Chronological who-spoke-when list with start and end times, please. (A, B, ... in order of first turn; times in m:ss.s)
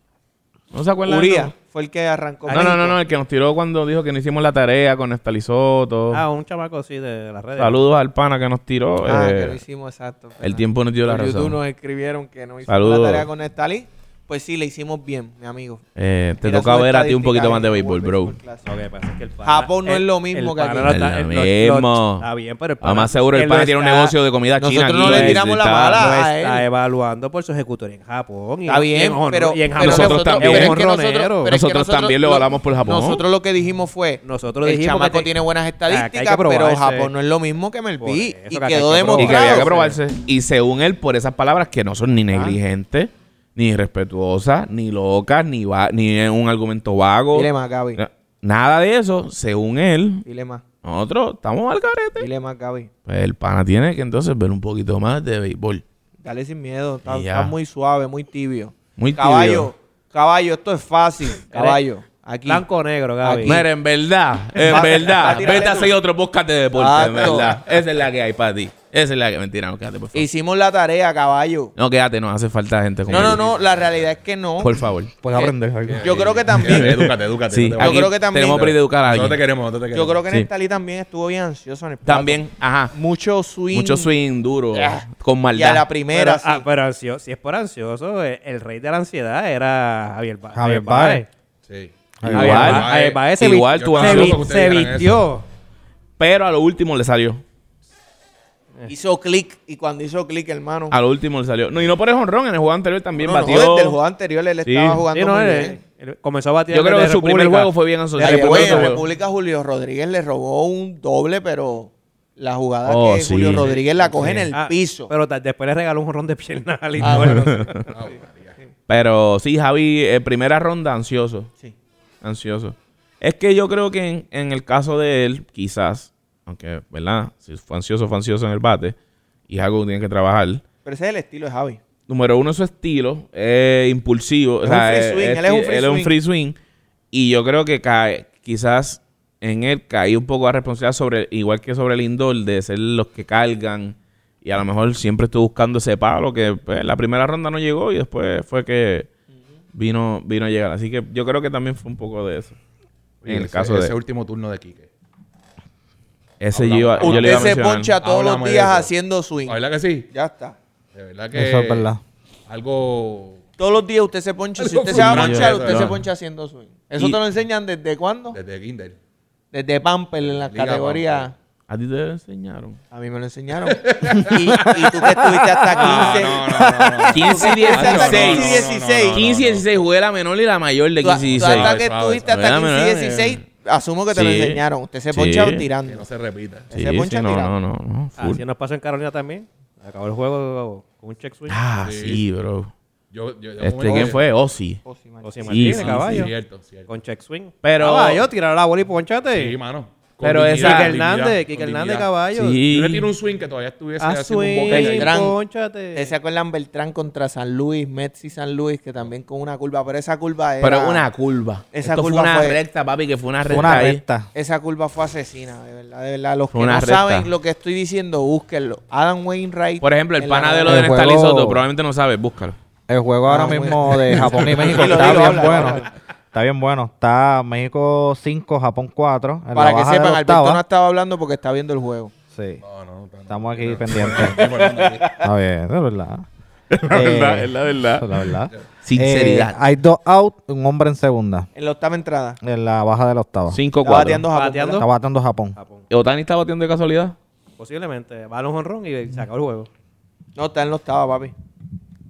0:00.7-0:01.5 A
0:01.0-0:03.0 B
0:02.5-0:02.7 C
0:02.5-0:06.2 A
0:06.1-0:07.8 C
0:07.6-0:09.6 A
0:09.0-0:15.8 B
0:10.4-0:11.6 A
0:12.7-0:13.3 A
0:16.0-0:18.4 A
0:16.4-0:18.6 B
0:18.6-0:24.1 C
0:19.4-0:21.0 B
0:20.8-0:22.2 A
0:22.8-0:26.1 A
0:24.6-0:26.6 B
0:25.0-0:31.6 C
0:28.6-0:39.7 B
0:29.8-0:30.8 A
0:31.4-0:33.2 A
0:34.2-0:35.3 C
0:35.9-0:37.1 C
0:38.0-0:40.0 C
0:39.2-0:50.2 A
0:42.3-0:42.6 B
0:47.3-0:48.0 B
0:50.2-0:50.6 B
0:50.8-0:52.3 A
0:52.2-0:52.9 B
0:53.0-0:55.8 A
0:56.2-1:02.6 B
0:57.0-0:57.5 A
0:59.0-0:59.7 A
1:01.5-1:01.8 C
1:02.4-1:03.6 C
1:03.2-1:03.6 B
1:03.4-1:10.2 A
1:04.6-1:05.9 B
1:04.7-1:05.1 C
1:06.7-1:07.6 B
1:10.1-1:11.7 B
1:11.8-1:13.4 A
1:13.0-1:14.1 D
1:13.1-1:14.8 B
1:14.6-1:15.1 A
1:15.2-1:16.2 E
1:15.3-1:17.1 B
1:15.8-1:20.2 D
1:16.5-1:19.4 A
1:17.8-1:18.7 B
1:19.9-1:24.1 B
1:22.0-1:22.9 A
1:23.7-1:25.9 A
1:24.7-1:26.6 B
1:26.1-1:31.3 C
1:30.5-1:31.2 E
1:31.7-1:35.2 D
1:32.2-1:32.9 E
1:32.2-1:34.6 A
1:32.3-1:35.4 C
1:36.2-1:37.4 A
1:38.8-1:41.0 B
1:40.9-1:44.0 A
1:43.2-1:45.8 B
1:44.6-1:45.0 A
1:45.1-1:49.0 C
1:46.7-1:49.0 A
1:48.2-1:55.1 B
1:52.8-1:54.5 A
1:53.5-1:54.5 D
1:54.5-1:57.9 C
1:57.0-1:57.8 B
1:57.0-1:57.8 A
1:57.8-1:58.6 D
1:58.9-2:01.5 A
2:02.2-2:09.0 A
2:09.5-2:10.6 A
2:10.8-2:11.8 B
2:12.1-2:16.6 A
2:14.6-2:16.1 B
2:17.1-2:29.1 A
2:29.7-2:32.6 A
2:33.2-2:34.9 D
2:33.2-2:33.9 A
2:36.4-2:37.9 A
2:36.5-2:38.9 D
2:37.0-2:40.6 B
2:39.4-2:40.1 D
2:40.9-2:41.9 D
2:41.3-2:42.0 E
2:42.5-2:43.4 D
2:43.6-2:48.4 B
2:44.6-2:46.0 D
2:44.9-2:46.0 A
2:48.3-2:49.0 D
2:49.5-2:51.3 B
2:50.3-2:51.3 D
2:51.7-2:52.8 A
2:52.9-2:59.2 B
2:53.7-2:55.0 D
2:55.7-2:59.7 D
2:55.8-2:56.3 A
2:57.1-3:03.4 A
3:01.0-3:06.0 B
3:01.2-3:02.4 D
3:04.1-3:05.7 A
3:05.8-3:06.7 D
3:06.7-3:07.6 B
3:06.7-3:08.4 A
3:08.2-3:11.6 C
3:11.5-3:12.7 A
3:11.8-3:12.2 D
3:13.1-3:14.2 D
3:13.6-3:14.8 A
3:13.8-3:14.2 B
3:14.8-3:15.8 B
3:15.2-3:16.3 C
3:15.5-3:16.3 A
3:15.6-3:17.0 D
3:16.9-3:19.6 C
3:17.6-3:18.3 A
3:19.3-3:22.1 D
3:20.2-3:20.9 A
3:20.5-3:22.6 C
3:22.3-3:23.1 A
3:22.6-3:25.2 D
3:24.0-3:26.1 C
3:24.7-3:25.4 B
3:25.9-3:31.0 B
3:30.6-3:34.0 A
3:31.7-3:32.6 B
3:33.4-3:34.3 E
3:34.3-3:40.9 B
3:36.5-3:37.3 A
3:39.8-3:42.6 A
3:40.6-3:41.6 E
3:42.9-3:50.6 E
3:43.2-3:45.9 B
3:44.1-3:45.4 A
3:49.5-3:52.1 B
3:52.3-3:52.6 E
3:52.6-3:55.1 D
3:53.3-3:54.5 E
3:54.3-3:55.2 B
3:55.2-3:56.2 E
3:56.7-3:59.6 A
3:56.8-4:01.5 E
4:01.5-4:02.4 B
4:02.4-4:03.6 E
4:03.5-4:04.2 A
4:03.8-4:04.8 B
4:04.3-4:04.9 C
4:04.8-4:05.6 E
4:05.5-4:05.8 C
4:05.9-4:07.2 A
4:07.6-4:09.7 C
4:10.4-4:11.3 B